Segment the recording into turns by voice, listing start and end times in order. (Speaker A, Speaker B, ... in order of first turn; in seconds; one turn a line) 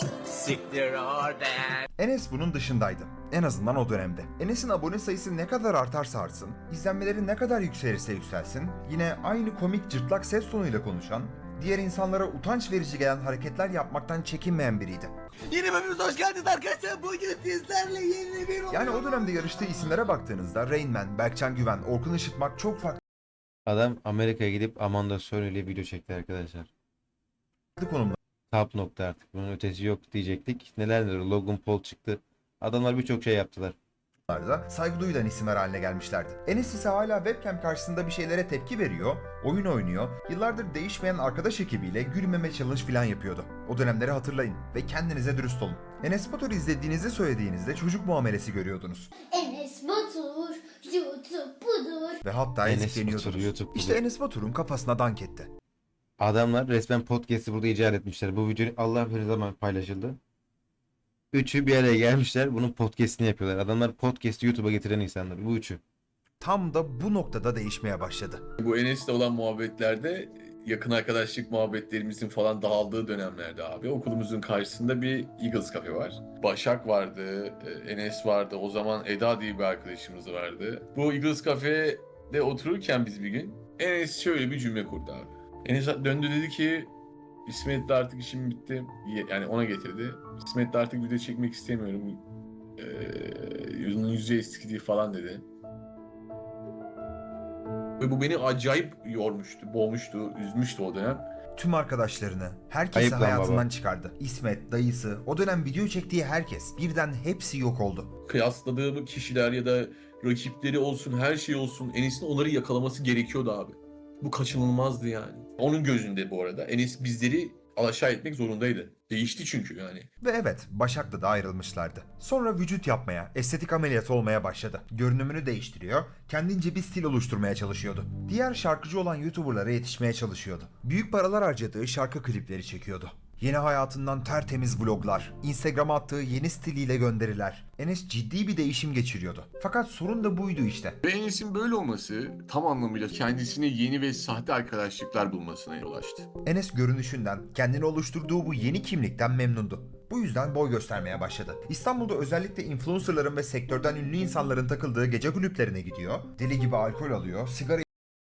Speaker A: 0.3-1.8
Speaker B: 2.0-15.2
Speaker A: 15.5-17.6
Speaker B: 18.7-23.0
Speaker C: 23.7-26.7
Speaker B: 27.8-28.2
Speaker C: 28.5-33.8
Speaker B: 34.3-49.1
Speaker D: 49.3-52.2
Speaker B: 52.2-55.5
Speaker C: 52.6-54.0
Speaker C: 56.2-60.2
Speaker C: 61.3-65.8
Speaker B: 66.4-68.4
Speaker E: 68.6-86.9
Speaker E: 87.5-92.2
Speaker E: 92.8-95.5
Speaker E: 98.0-101.3
Speaker B: 101.6-108.1
Speaker C: 102.9-103.7
Speaker E: 108.3-120.1
Speaker B: 120.2-141.0
Speaker E: 141.0-146.3
Speaker B: 146.4-157.9